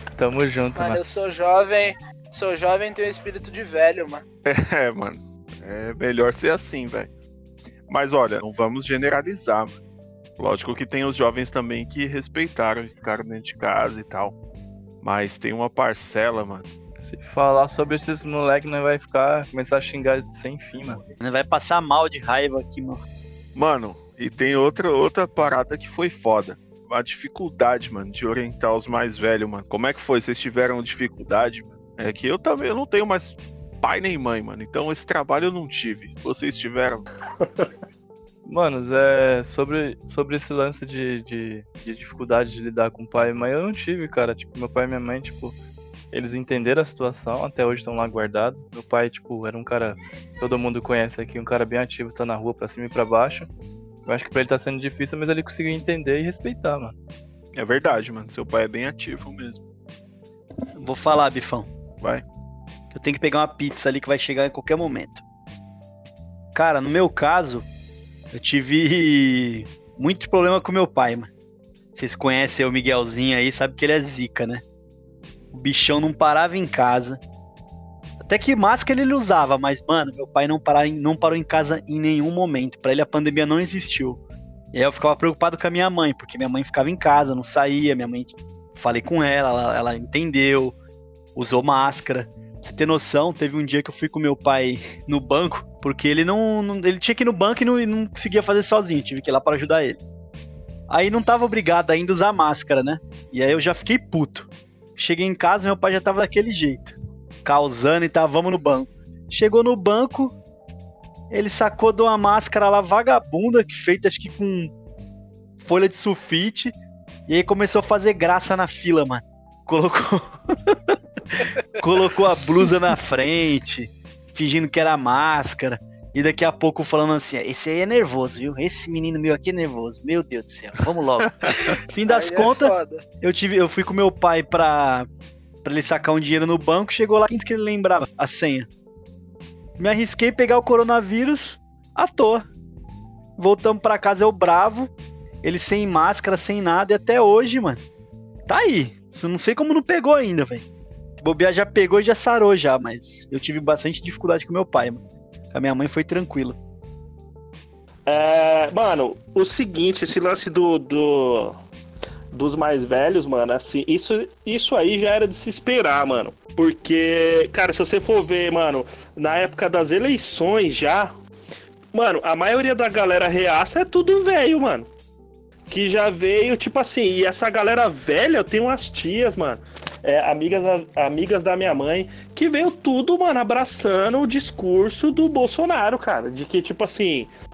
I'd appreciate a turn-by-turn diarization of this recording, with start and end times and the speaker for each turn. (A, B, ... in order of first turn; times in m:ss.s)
0:00.2-0:01.0 A
0:00.8-0:04.2 B
0:04.4-0:07.1 C
0:07.9-0:09.8 C
0:10.4-0:14.4 C
0:15.0-0:16.7 C
0:17.0-0:21.0 A
0:21.2-0:23.0 D
0:23.6-0:37.1 C
0:37.4-0:37.7 E
0:38.5-0:45.6 A
0:46.1-0:53.5 A
0:54.1-0:57.0 A
0:57.6-0:59.6 C
1:00.8-1:01.7 D
1:02.9-1:05.2 D
1:06.5-1:07.7 D
1:08.3-1:11.3 D
1:11.9-1:14.6 D
1:15.5-1:17.2 D
1:18.2-1:24.2 D
1:24.7-1:30.8 D
1:31.4-1:40.0 D
1:40.9-1:50.4 D
1:51.3-1:54.7 D
1:55.6-1:56.8 D
1:57.3-2:00.8 D
2:01.4-2:15.1 D
2:11.5-2:13.0 B
2:15.6-2:18.7 D
2:19.8-2:22.4 D
2:23.4-2:24.9 D
2:25.4-2:27.8 D
2:28.5-2:30.6 D
2:31.2-2:35.0 D
2:35.5-2:36.6 D
2:38.1-2:41.6 E
2:42.3-2:51.1 E
2:51.9-2:54.9 E
2:55.7-3:07.3 E